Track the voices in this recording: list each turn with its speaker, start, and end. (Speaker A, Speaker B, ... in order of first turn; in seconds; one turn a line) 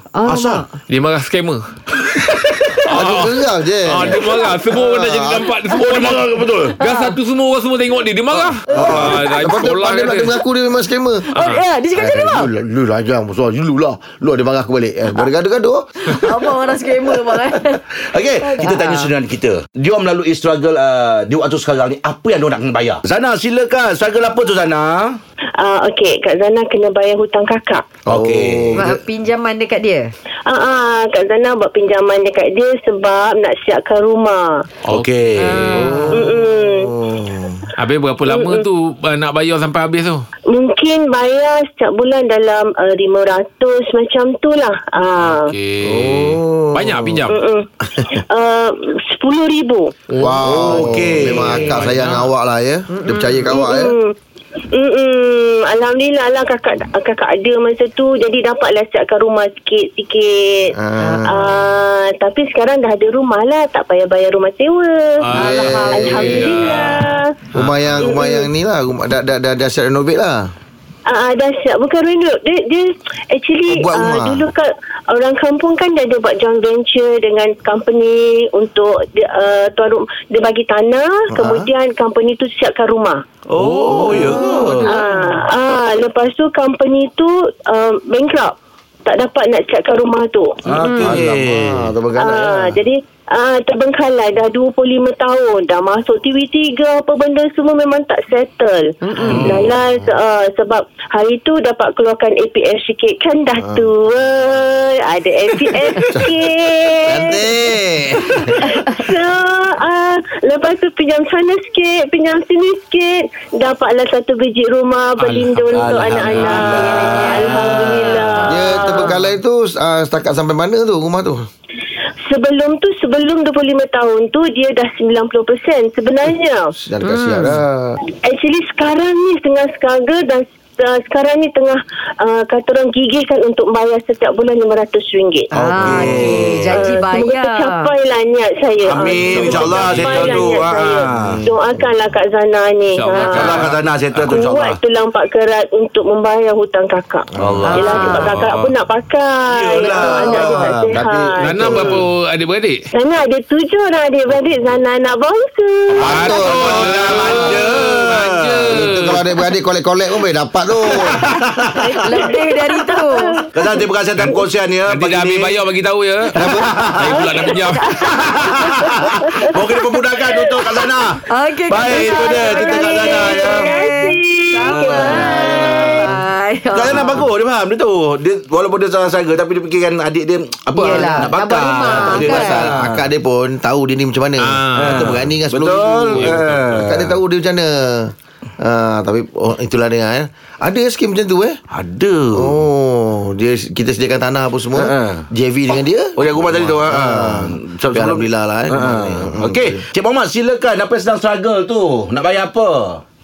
Speaker A: 0.2-0.7
Speaker B: 0.2-0.7
Speaker C: 0.9-1.6
Speaker B: 2.0-2.7
Speaker D: 2.9-5.5
Speaker C: 2.9-10.3
Speaker A: 4.2-4.5
Speaker B: 5.8-6.8
Speaker A: 6.6-7.2
Speaker D: 8.5-11.3
Speaker A: 8.7-9.0
Speaker B: 8.7-9.2
Speaker A: 11.2-12.5
Speaker C: 11.3-11.6
Speaker D: 11.9-16.2
Speaker A: 16.1-17.9
Speaker B: 18.0-25.2
Speaker A: 18.4-19.1
Speaker E: 25.6-27.9
Speaker B: 28.1-28.9
Speaker D: 28.1-29.0
Speaker A: 28.8-30.1
Speaker E: 30.5-34.7
Speaker C: 34.9-36.1
Speaker B: 34.9-35.7
Speaker A: 35.4-36.2
Speaker D: 35.8-37.7
Speaker E: 36.1-36.9
Speaker C: 37.8-40.3
Speaker E: 38.3-38.7
Speaker E: 40.5-45.5
Speaker C: 45.2-47.4
Speaker D: 45.8-47.2
Speaker E: 47.3-50.0
Speaker A: 50.2-51.9
Speaker D: 50.2-54.0
Speaker B: 50.4-51.8
Speaker C: 51.6-52.3
Speaker A: 52.9-53.4
Speaker E: 53.5-54.2
Speaker E: 54.7-60.8
Speaker D: 60.7-61.5
Speaker A: 61.0-61.4
Speaker E: 61.3-67.3
Speaker C: 65.2-68.1
Speaker D: 65.3-66.4
Speaker A: 65.4-66.9
Speaker D: 67.5-70.5
Speaker E: 68.0-68.5
Speaker E: 71.1-83.2
Speaker D: 73.7-74.5
Speaker D: 81.3-81.7
Speaker B: 83.5-84.9
Speaker D: 83.9-84.2
Speaker A: 84.1-85.5
Speaker E: 84.8-90.7
Speaker B: 90.7-91.9
Speaker A: 90.7-91.2
Speaker D: 91.0-92.8
Speaker E: 92.2-107.5
Speaker A: 99.0-99.5
Speaker B: 99.2-99.7
Speaker D: 99.4-100.1
Speaker D: 103.6-103.9
Speaker D: 106.1-106.3
Speaker D: 107.0-108.8
Speaker E: 108.3-119.1
Speaker C: 115.2-115.9
Speaker B: 115.7-118.4
Speaker A: 116.3-119.1
Speaker D: 118.5-121.5
Speaker E: 122.3-126.7
Speaker D: 126.8-128.0
Speaker A: 127.0-127.6
Speaker E: 128.1-135.5
Speaker A: 135.5-137.9
Speaker D: 135.6-136.5
Speaker B: 135.6-136.9
Speaker E: 136.7-143.7
Speaker B: 138.8-141.5
Speaker C: 139.8-140.6
Speaker C: 142.9-144.2
Speaker A: 143.1-143.7
Speaker B: 143.3-144.8
Speaker E: 144.3-152.0
Speaker D: 147.4-147.9
Speaker B: 147.4-148.7
Speaker A: 147.7-148.3
Speaker B: 149.5-151.0
Speaker D: 150.3-152.0
Speaker C: 151.4-152.8
Speaker E: 152.9-156.6
Speaker D: 156.0-157.6
Speaker C: 156.1-159.2
Speaker B: 156.2-158.8
Speaker D: 158.7-161.2
Speaker B: 160.9-162.1
Speaker A: 161.1-163.5
Speaker E: 161.8-163.8
Speaker B: 163.5-165.6
Speaker C: 164.9-166.4
Speaker D: 166.3-166.7
Speaker B: 166.5-167.2
Speaker C: 167.0-167.9
Speaker E: 167.1-169.7
Speaker A: 167.5-168.9
Speaker B: 168.1-173.8
Speaker A: 170.4-177.3
Speaker E: 171.9-176.1
Speaker B: 174.7-175.6
Speaker D: 175.1-176.1
Speaker B: 176.7-183.1
Speaker A: 180.7-182.8
Speaker D: 180.9-181.2
Speaker D: 181.9-191.6
Speaker C: 184.4-185.2
Speaker B: 184.7-187.2
Speaker C: 186.1-186.7
Speaker B: 191.7-192.6
Speaker D: 192.4-199.9
Speaker B: 194.8-195.3
Speaker B: 196.2-203.0